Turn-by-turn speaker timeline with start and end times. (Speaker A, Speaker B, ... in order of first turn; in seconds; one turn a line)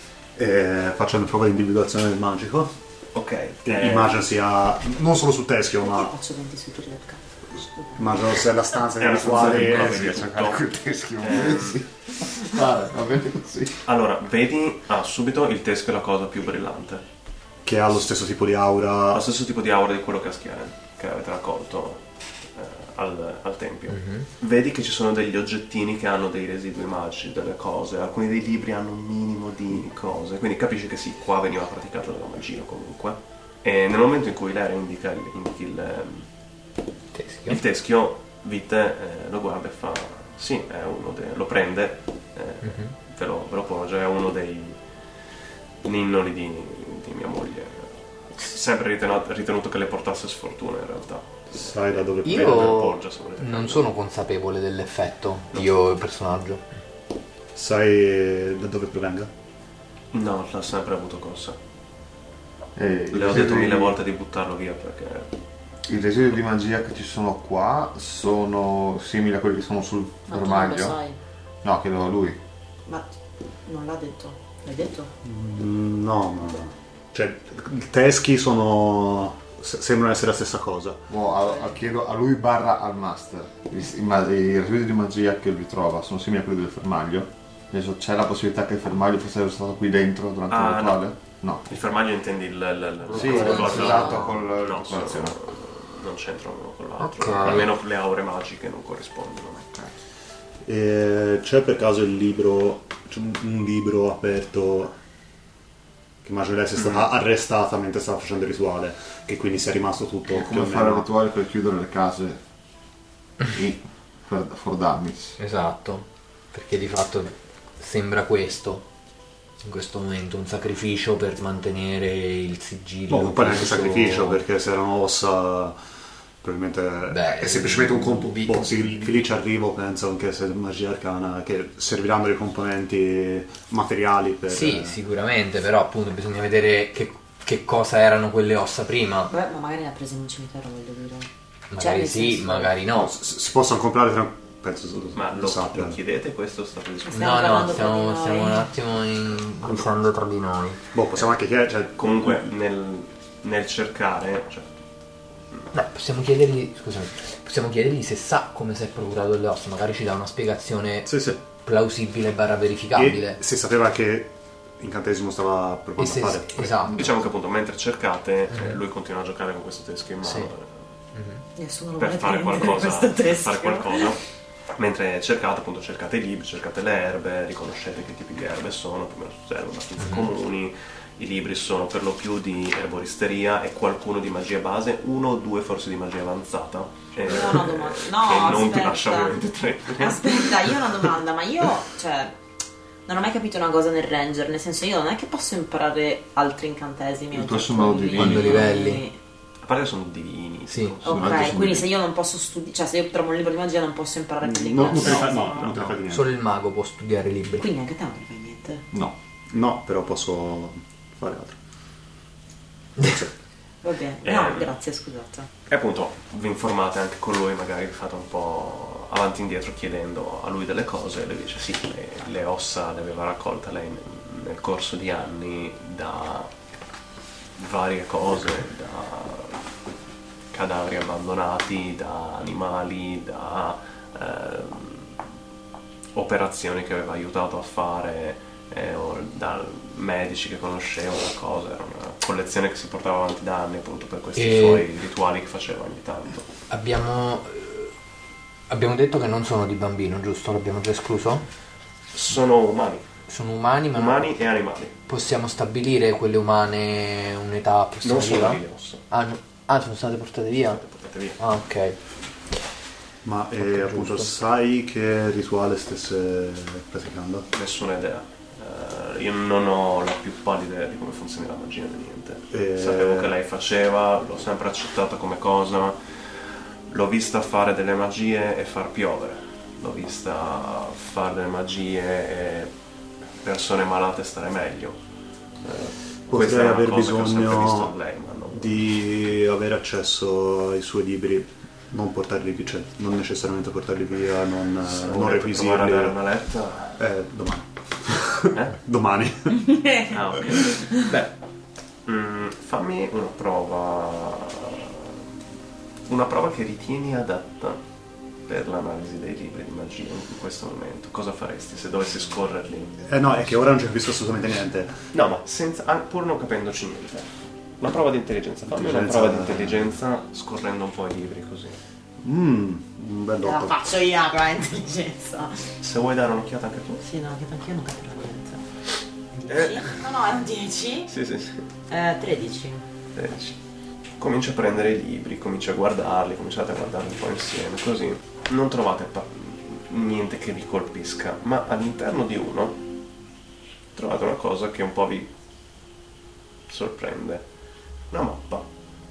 Speaker A: 0.3-2.7
Speaker B: 3.1-4.2
Speaker A: 3.6-6.1
Speaker C: 5.8-7.2
Speaker C: 7.7-8.3
Speaker A: 8.0-10.3
Speaker B: 8.9-10.6
Speaker D: 9.2-13.8
Speaker B: 11.2-11.8
Speaker B: 13.8-17.0
Speaker A: 17.6-19.2
Speaker B: 19.1-22.0
Speaker B: 22.5-36.2
Speaker E: 23.9-24.3
Speaker E: 37.1-37.6
Speaker B: 37.5-44.8
Speaker E: 42.6-42.9
Speaker B: 45.8-51.5
Speaker A: 51.5-53.0
Speaker E: 52.2-56.6
Speaker B: 52.5-53.9
Speaker A: 57.5-59.3
Speaker B: 60.1-61.6
Speaker D: 62.8-64.0
Speaker B: 63.1-65.3
Speaker D: 65.9-71.0
Speaker C: 70.3-71.2
Speaker D: 71.6-72.4
Speaker C: 73.6-75.1
Speaker A: 75.2-81.0
Speaker D: 81.1-91.7
Speaker B: 90.5-91.1
Speaker B: 91.7-99.7
Speaker D: 93.1-95.4
Speaker E: 93.2-94.2
Speaker A: 93.5-94.0
Speaker E: 97.0-97.7
Speaker A: 100.6-104.9
Speaker A: 106.2-111.0
Speaker D: 110.3-112.4
Speaker D: 113.5-115.4
Speaker E: 115.4-118.8
Speaker E: 119.6-124.4
Speaker A: 123.1-125.8
Speaker A: 126.4-135.0
Speaker E: 127.1-129.1
Speaker E: 134.5-139.3
Speaker C: 139.3-142.7
Speaker E: 141.7-143.1
Speaker A: 142.9-146.0
Speaker B: 145.1-147.7
Speaker C: 147.0-148.7
Speaker E: 147.2-150.8
Speaker A: 150.9-152.5
Speaker B: 152.0-154.7
Speaker E: 155.7-163.4
Speaker A: 161.1-161.4
Speaker A: 162.9-166.8
Speaker E: 166.0-167.1
Speaker B: 166.9-170.8
Speaker E: 168.5-168.8
Speaker E: 170.2-170.5
Speaker E: 171.1-171.4
Speaker C: 171.6-174.2
Speaker B: 172.0-174.2
Speaker B: 174.8-190.9
Speaker C: 187.2-189.4
Speaker C: 190.0-192.3
Speaker C: 193.1-199.2
Speaker D: 197.3-198.7
Speaker E: 198.1-199.0
Speaker B: 199.6-201.8
Speaker C: 201.0-205.7
Speaker D: 201.1-201.8
Speaker A: 204.4-206.3
Speaker B: 204.9-205.9
Speaker E: 206.1-207.7
Speaker C: 207.6-208.8
Speaker A: 209.5-211.6
Speaker C: 213.8-215.5
Speaker B: 214.2-214.7
Speaker B: 215.7-226.5
Speaker B: 227.6-229.6
Speaker B: 230.5-235.1
Speaker B: 236.1-246.5
Speaker E: 244.3-244.9
Speaker E: 246.7-247.9
Speaker E: 248.7-251.4
Speaker B: 252.1-253.1
Speaker E: 253.3-254.3
Speaker B: 253.9-254.9
Speaker E: 255.1-260.8
Speaker B: 258.0-259.0
Speaker B: 260.7-261.4
Speaker E: 261.4-262.0
Speaker A: 263.2-267.5
Speaker E: 263.6-264.3
Speaker B: 267.5-276.0
Speaker A: 272.5-273.3
Speaker B: 276.9-282.7
Speaker B: 283.4-285.0
Speaker B: 285.6-288.8
Speaker A: 286.3-287.9
Speaker A: 288.5-296.2
Speaker B: 294.8-296.9
Speaker A: 297.0-299.8
Speaker C: 299.7-300.1
Speaker B: 300.1-301.3
Speaker C: 300.7-301.1
Speaker B: 302.1-305.1
Speaker B: 306.1-307.8
Speaker B: 308.5-313.0
Speaker A: 313.0-315.0
Speaker B: 315.1-321.8
Speaker A: 318.7-319.8
Speaker A: 322.2-323.8
Speaker C: 323.4-325.7
Speaker B: 325.8-327.0
Speaker C: 327.0-328.6
Speaker C: 329.4-331.1
Speaker B: 329.4-329.9
Speaker B: 331.1-331.6
Speaker C: 331.9-332.8
Speaker B: 333.1-333.6
Speaker B: 334.2-342.8
Speaker B: 343.9-345.3
Speaker B: 346.7-347.4
Speaker B: 348.1-348.7